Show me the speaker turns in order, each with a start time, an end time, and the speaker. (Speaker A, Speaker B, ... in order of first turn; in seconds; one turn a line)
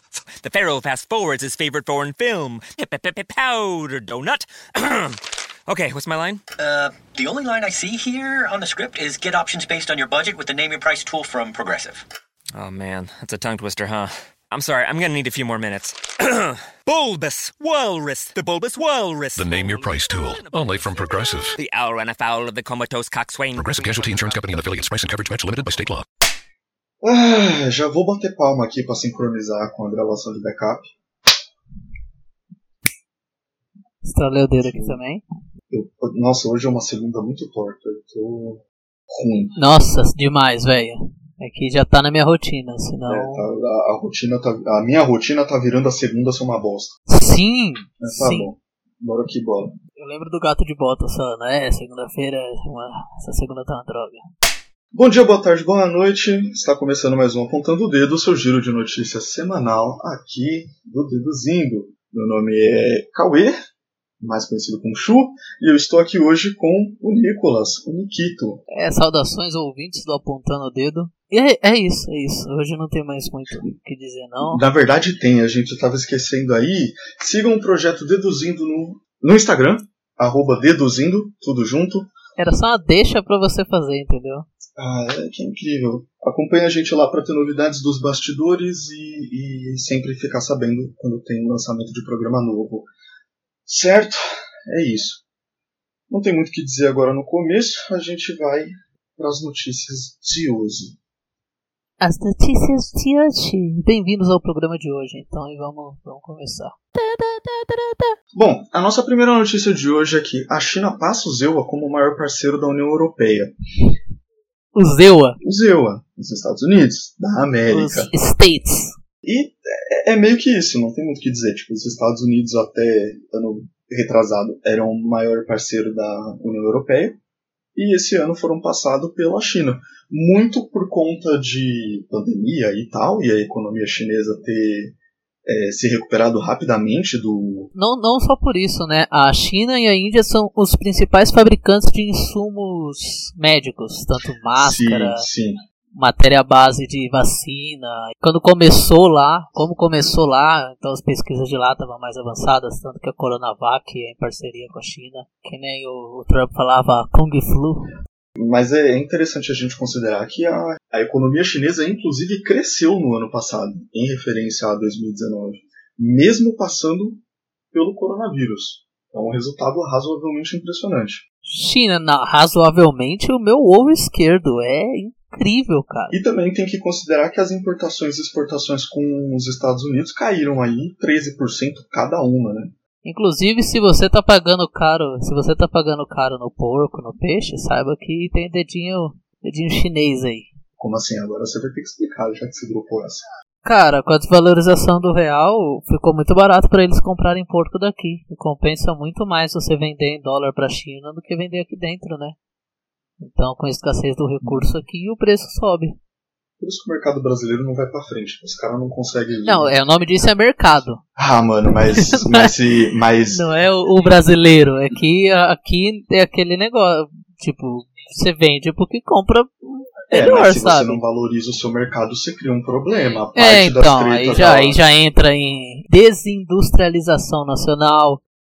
Speaker A: 0.4-6.4
Speaker B: 6.6-12.0
Speaker A: 12.5-24.9
Speaker C: 19.4-21.6
Speaker C: 23.5-26.0
Speaker D: 27.0-30.9
Speaker E: 34.0-35.2
Speaker D: 34.6-35.0
Speaker D: 35.7-39.5
Speaker E: 39.6-43.5
Speaker D: 43.1-46.9
Speaker E: 47.1-48.5
Speaker D: 48.0-49.8
Speaker E: 50.0-54.2
Speaker D: 54.9-63.5
Speaker D: 64.2-68.6
Speaker E: 68.7-74.6
Speaker D: 74.4-82.1
Speaker E: 82.4-84.5
Speaker D: 84.8-92.9
Speaker D: 93.7-95.2
Speaker D: 96.1-101.0
Speaker E: 102.0-106.8
Speaker D: 108.3-113.5
Speaker E: 114.7-115.4
Speaker D: 115.4-118.1
Speaker E: 117.7-118.9
Speaker D: 119.2-127.2
Speaker D: 127.7-137.7
Speaker E: 137.7-145.3
Speaker D: 144.6-145.6
Speaker E: 145.9-157.9
Speaker D: 158.4-167.2
Speaker D: 167.7-171.2
Speaker E: 171.4-176.2
Speaker D: 176.1-182.7
Speaker E: 183.0-190.5
Speaker D: 190.8-193.2
Speaker E: 193.6-202.3
Speaker E: 203.2-206.0
Speaker D: 204.4-204.7
Speaker D: 206.6-209.7
Speaker E: 209.4-211.0
Speaker D: 211.2-213.4
Speaker E: 211.9-212.5
Speaker E: 213.3-221.0
Speaker D: 220.1-224.8
Speaker E: 223.3-228.2